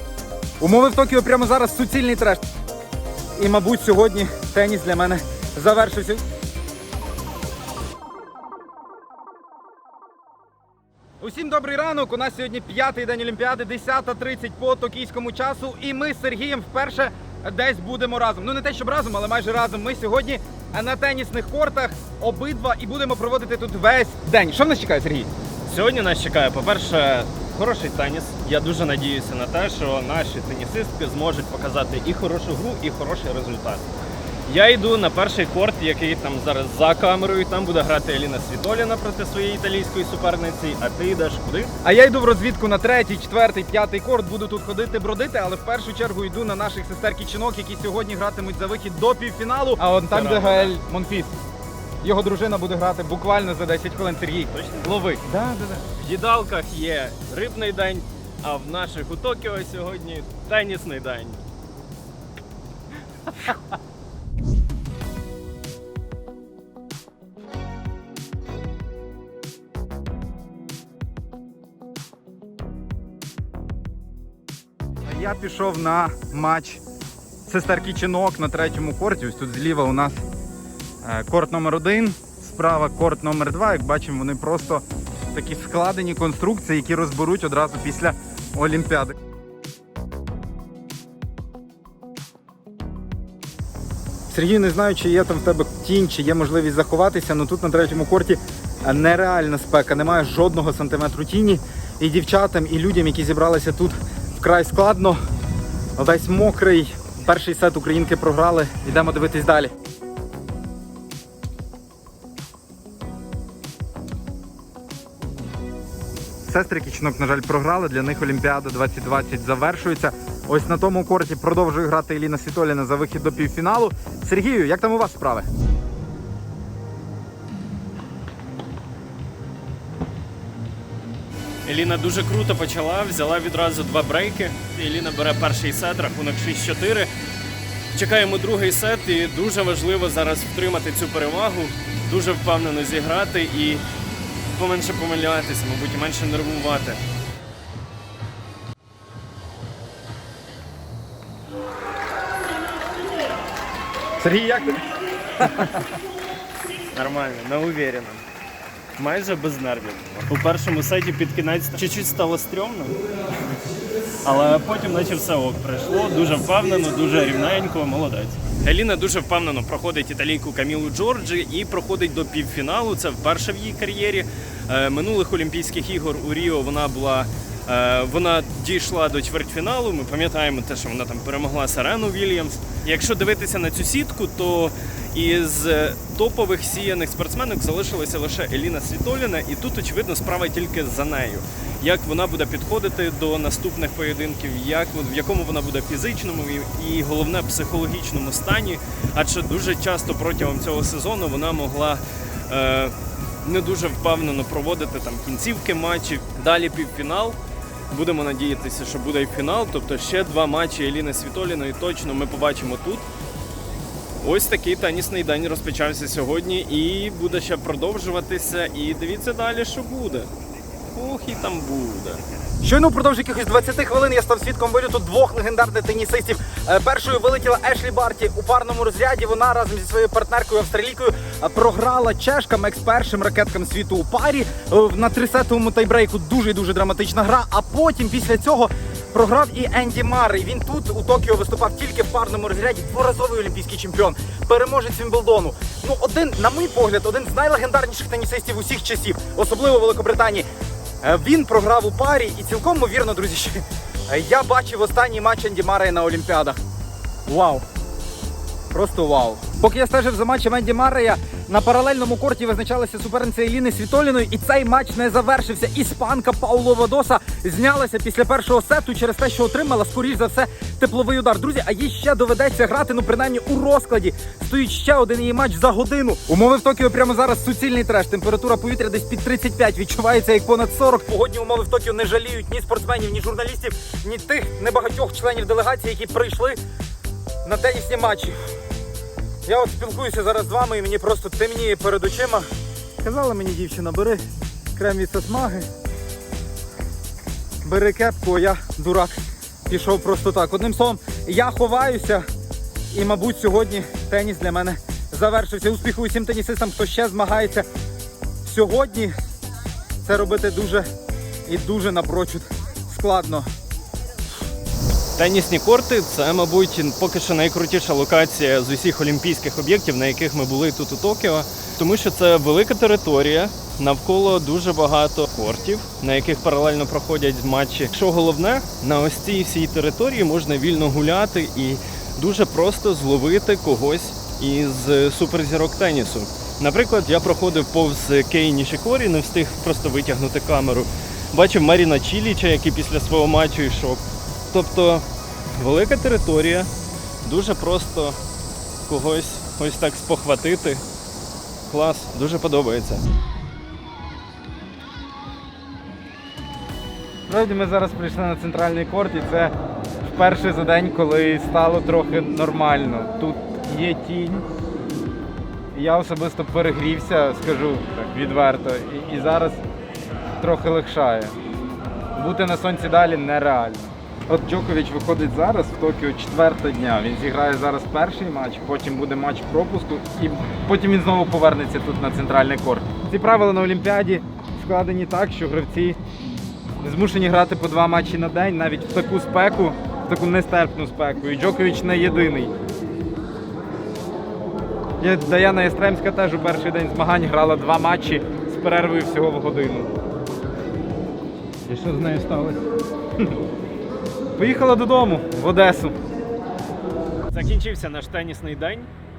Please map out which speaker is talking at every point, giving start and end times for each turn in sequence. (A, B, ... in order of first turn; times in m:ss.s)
0:00.6-0:02.5 A
0:03.4-0:06.2 A
0:11.2-0:25.3 A
0:25.6-0:33.8 B
0:34.5-0:41.7 B
0:41.8-0:51.3 A
0:50.1-0:50.7 B
0:52.0-0:55.8 A
0:54.5-0:54.9 B
0:55.9-1:01.4 B
1:15.0-1:16.8 A
1:17.4-1:20.2 A
1:21.0-1:29.1 A
1:34.3-1:45.2 A
1:46.0-1:49.7 A
1:56.4-2:05.5 A
2:11.6-2:17.1 B
2:17.9-2:23.8 B
2:24.5-2:27.0 B
2:34.2-2:34.8 A
2:35.4-2:35.9 A
2:36.9-2:38.2 B
2:39.0-2:43.0 B
2:44.2-3:27.4 B
3:27.9-3:33.0 B
3:34.2-3:40.3 B
3:40.9-3:42.2 B
3:42.6-4:10.4 A
4:11.0-4:16.6 A
4:17.3-4:17.6 A
4:18.7-4:46.6 A
4:47.4-4:48.3 A
4:49.4-4:52.4 A
4:53.0-4:54.2 A
4:54.8-4:55.7 A
4:57.6-5:02.2 A
5:02.9-5:07.6 A
5:08.4-5:09.1 A
5:10.0-5:10.8 A
5:11.5-5:13.5 A
5:15.2-5:46.7 B
5:47.2-5:48.2 B
5:48.8-5:50.8 B
5:51.7-5:53.0 B
5:57.3-6:04.4 A
6:05.7-6:09.6 A
6:10.4-6:11.3 A
6:12.2-6:26.0 A
6:26.8-6:32.5 A
6:35.0-6:39.9 A
6:41.7-6:42.6 B
6:44.4-6:46.0 A
6:47.3-6:48.9 B